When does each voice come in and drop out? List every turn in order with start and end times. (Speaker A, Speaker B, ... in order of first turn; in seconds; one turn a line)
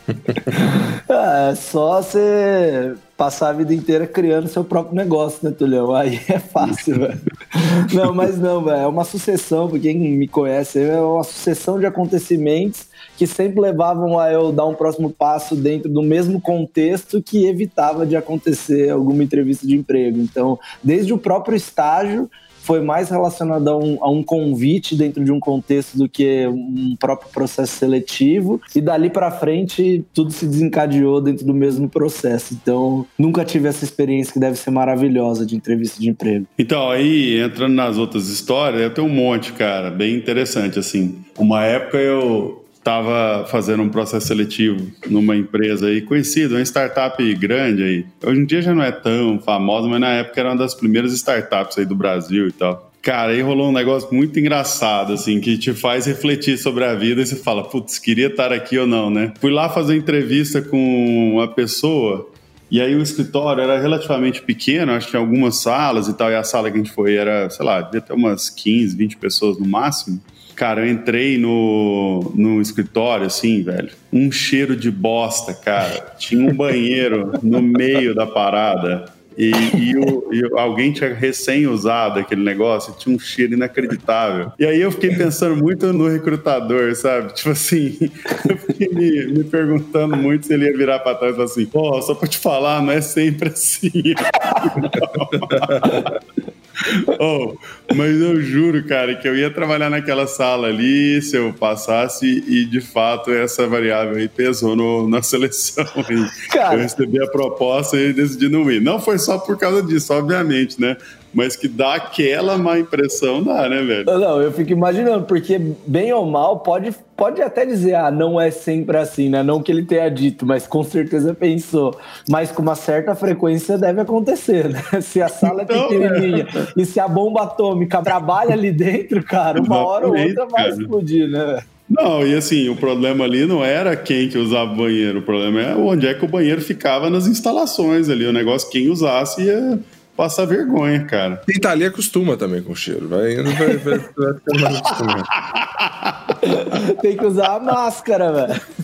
Speaker A: 0.3-36.5
Speaker B: 36.6-96.1
Speaker A: 94.5-94.9
Speaker C: 95.4-95.9
Speaker A: 95.8-96.1
Speaker B: 96.8-114.1
Speaker A: 106.5-106.9
Speaker A: 114.1-131.6
Speaker B: 125.4-126.6
Speaker B: 129.5-130.9
Speaker B: 131.9-141.4
Speaker C: 141.5-145.3
Speaker B: 145.5-146.3
Speaker A: 146.4-148.6